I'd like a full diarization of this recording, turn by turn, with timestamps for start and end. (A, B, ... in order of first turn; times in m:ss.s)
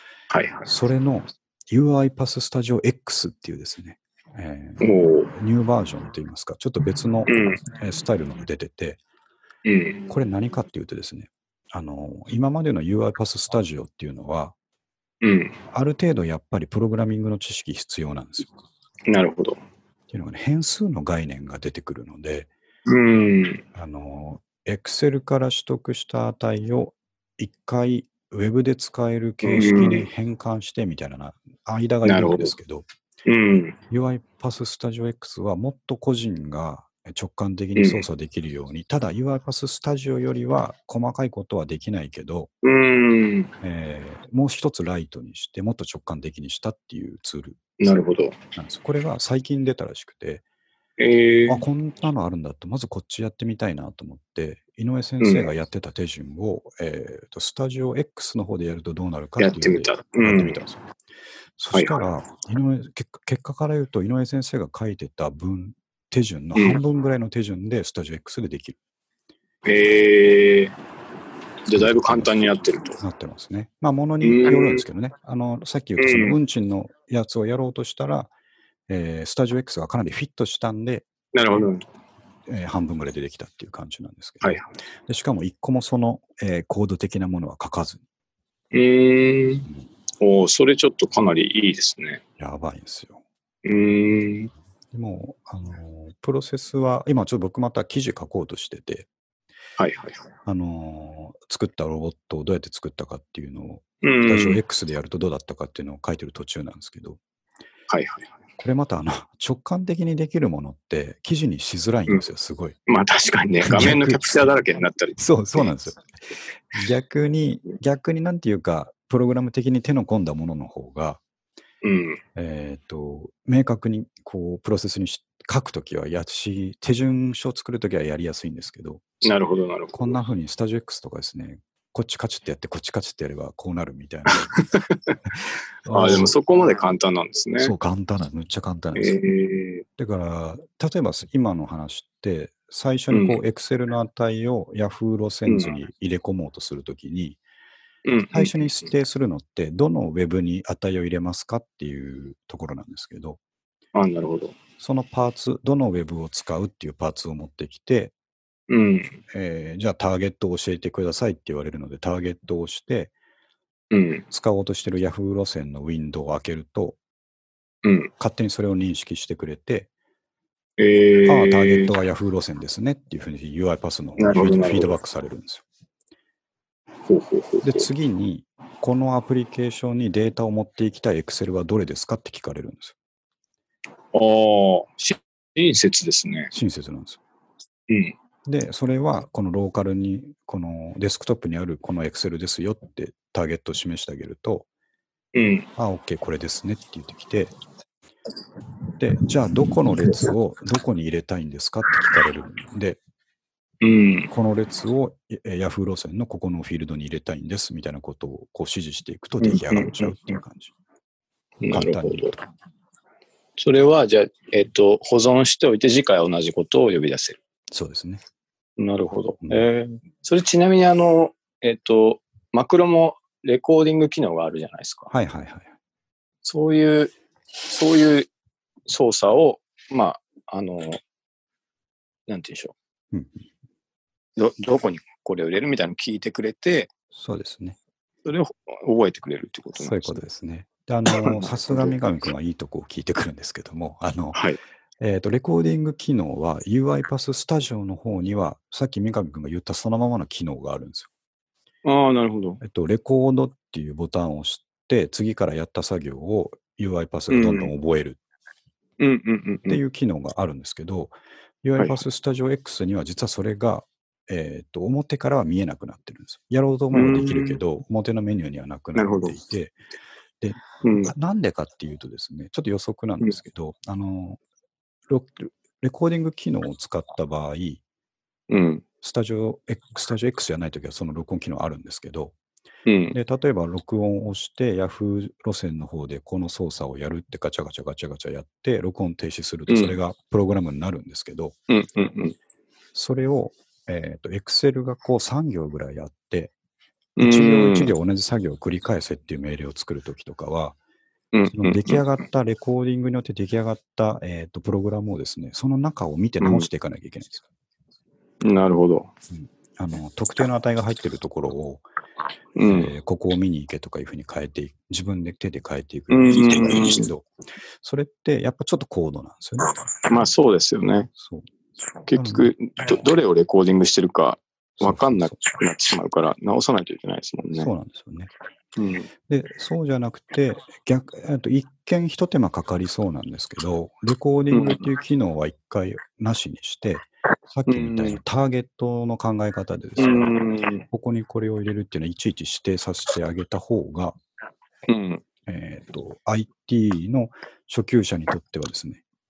0:00.3-0:00.7 A
0:00.6-0:09.0 B
0:04.8-0:05.3 A
0:07.3-0:07.6 A
0:09.6-0:10.0 A
0:10.1-0:14.6 B
0:15.2-0:15.6 A
0:15.7-0:18.5 B
0:19.1-0:19.6 A
0:20.1-0:22.5 B
0:22.9-0:23.6 A
0:23.7-0:32.9 B
0:29.4-0:30.1 A
0:32.0-0:32.5 A
0:33.3-0:33.8 A
0:33.9-0:42.5 B
0:37.8-0:38.0 A
0:42.6-0:43.5 A
0:43.6-0:47.7 B
0:47.8-0:48.4 A
0:48.6-0:50.4 B
0:51.0-0:51.6 A
0:51.5-1:00.9 B
0:55.2-0:55.5 A
0:59.4-1:00.6 A
1:01.6-1:08.8 B
1:01.7-1:02.1 A
1:06.6-1:06.8 A
1:09.6-1:10.8 A
1:11.7-1:13.0 A
1:11.7-1:12.4 B
1:13.0-1:18.3 B
1:14.2-1:14.8 A
1:16.0-1:16.4 A
1:18.9-1:21.7 B
1:21.3-1:21.8 A
1:22.5-1:28.0 B
1:24.4-1:24.7 A
1:28.7-1:29.7 A
1:30.2-1:32.2 A
1:32.4-1:33.2 B
1:33.6-1:34.5 A
1:34.9-1:39.1 B
1:39.8-1:40.2 A
1:40.4-1:47.2 B
1:44.0-1:44.6 A
1:47.9-1:48.3 A
1:48.6-1:52.8 B
1:52.9-1:55.7 A
1:53.6-1:54.5 B
1:55.2-1:56.1 B
1:56.7-2:01.2 B
2:01.8-2:02.2 A
2:02.4-2:09.0 B
2:09.2-2:10.2 A
2:09.9-2:14.6 B
2:14.3-2:15.2 A
2:15.8-2:16.4 B
2:15.9-2:17.7 A
2:17.6-2:19.2 B
2:19.0-2:19.8 A
2:20.0-2:27.4 B
2:23.1-2:23.4 A
2:25.5-2:25.7 A
2:28.1-2:28.9 A
2:28.3-2:33.4 B
2:34.0-2:34.6 A
2:34.8-2:38.1 B
2:38.7-2:39.2 A
2:39.3-2:43.1 B
2:43.9-2:44.2 A
2:44.3-2:47.0 B
2:47.8-2:48.1 A
2:48.2-2:49.9 B
2:50.8-2:51.9 A
2:51.3-2:55.6 B
2:54.2-2:55.0 A
2:57.1-2:57.9 A
2:57.6-3:03.0 B
3:04.1-3:06.5 A
3:06.5-3:07.2 B
3:07.9-3:08.2 A
3:08.5-3:14.7 B
3:15.3-3:15.7 A
3:15.8-3:17.6 B
3:19.0-3:23.0 B
3:19.9-3:20.2 A
3:23.8-3:24.3 A
3:24.3-3:30.7 B
3:29.4-3:30.4 A
3:31.6-3:32.4 A
3:31.7-3:32.4 B
3:33.6-3:37.4 A
3:37.7-3:38.2 B
3:38.8-3:45.1 A
3:45.1-3:45.7 B
3:46.4-3:48.3 A
3:48.9-3:51.0 A
3:52.3-3:52.8 A
3:53.1-3:53.5 B
3:54.4-3:56.9 A
3:57.1-3:57.8 B
3:58.2-4:00.2 A
3:59.8-4:04.4 B
4:01.1-4:02.0 A
4:05.0-4:11.1 B
4:11.8-4:12.6 A
4:12.6-4:18.2 B
4:17.3-4:17.7 A
4:19.0-4:19.8 A
4:19.7-4:29.8 B
4:26.9-4:27.6 A
4:29.0-4:29.4 A
4:30.4-4:34.4 B
4:30.8-4:31.1 A
4:35.1-4:37.8 B
4:38.5-4:38.8 A
4:39.0-4:42.4 B
4:42.9-4:43.2 A
4:43.1-4:51.6 B
4:49.7-4:50.0 A
4:51.7-4:52.4 A
4:52.9-4:56.5 B
4:57.2-4:57.9 A
4:57.2-5:00.8 B
5:01.3-5:02.0 A
5:01.5-5:07.4 B
5:06.4-5:06.7 A
5:08.4-5:09.1 A
5:09.3-5:11.8 B
5:12.6-5:12.9 A
5:12.6-5:17.3 B
5:16.1-5:17.1 A
5:17.8-5:19.7 B
5:20.1-5:21.1 A
5:21.2-5:21.5 B
5:22.1-5:27.7 A
5:22.1-5:22.5 B
5:24.8-5:25.4 B
5:27.6-5:28.3 B
5:28.8-5:29.1 A
5:29.3-5:40.4 B
5:34.5-5:34.9 A
5:37.7-5:38.2 A
5:40.0-5:40.9 A
5:40.9-5:44.2 B
5:44.9-5:45.2 A
5:45.5-5:49.0 B